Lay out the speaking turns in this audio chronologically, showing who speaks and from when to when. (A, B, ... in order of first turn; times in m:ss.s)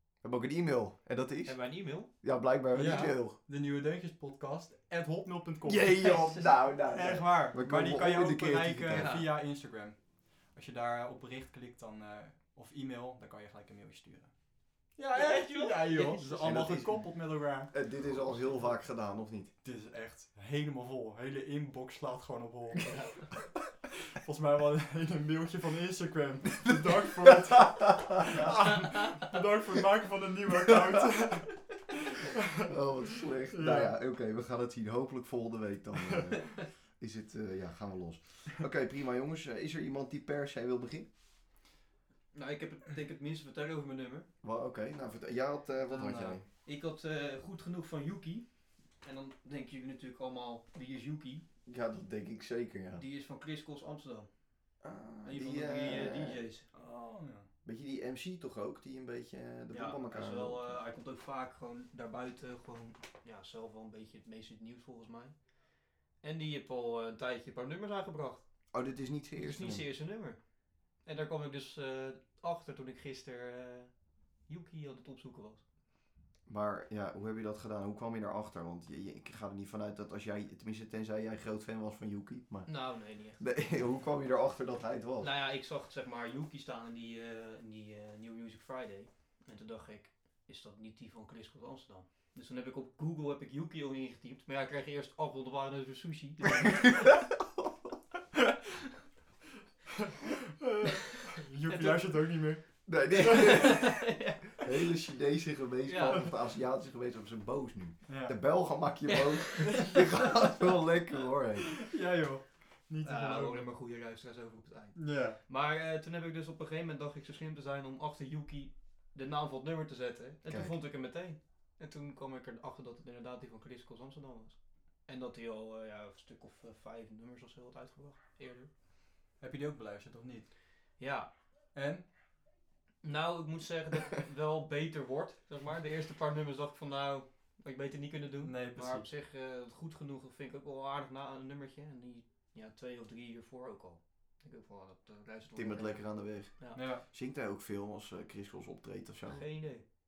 0:00.2-0:03.4 A
0:01.4-0:02.1 B
0:02.7-0:14.3 C
0:05.6-0:09.2 A
0:06.0-0:06.5 B
0:08.9-0:09.3 B
0:15.0-0:18.4 C
0:15.1-0:16.6 B
0:16.3-0:19.5 A
0:18.3-0:18.7 B
0:19.6-0:23.3 C
0:22.8-0:23.2 B
0:24.1-0:32.7 C
0:26.6-0:28.5 A
0:32.6-0:41.1 A
0:33.5-0:33.9 C
0:42.3-0:44.3 B
0:44.4-0:46.4 A
0:45.9-0:46.4 C
0:46.6-0:51.4 B
0:51.7-0:53.0 A
0:53.0-0:54.3 B
0:54.8-0:56.4 A
0:55.2-0:56.7 B
0:56.7-0:57.5 C
0:57.6-1:00.8 A
0:59.7-1:05.5 B
1:06.1-1:08.4 B
1:08.7-1:09.9 A
1:09.4-1:10.4 B
1:11.0-1:15.6 B
1:16.5-1:25.3 A
1:22.7-1:23.4 B
1:25.2-1:37.0 B
1:36.8-1:37.2 A
1:40.6-1:43.7 C
1:41.7-1:42.0 B
1:42.9-1:44.0 A
1:43.2-1:44.6 B
1:44.6-1:51.8 A
1:45.8-1:46.3 B
1:48.1-1:48.3 C
1:49.7-1:50.3 C
1:51.8-1:53.7 C
1:53.0-2:08.7 B
1:55.0-1:55.4 C
2:00.5-2:00.8 A
2:09.4-2:10.5 C
2:11.0-2:11.3 B
2:11.7-2:12.1 C
2:13.0-2:26.0 B
2:18.4-2:19.1 C
2:25.6-2:29.7 A
2:26.7-2:27.0 C
2:29.3-2:29.8 B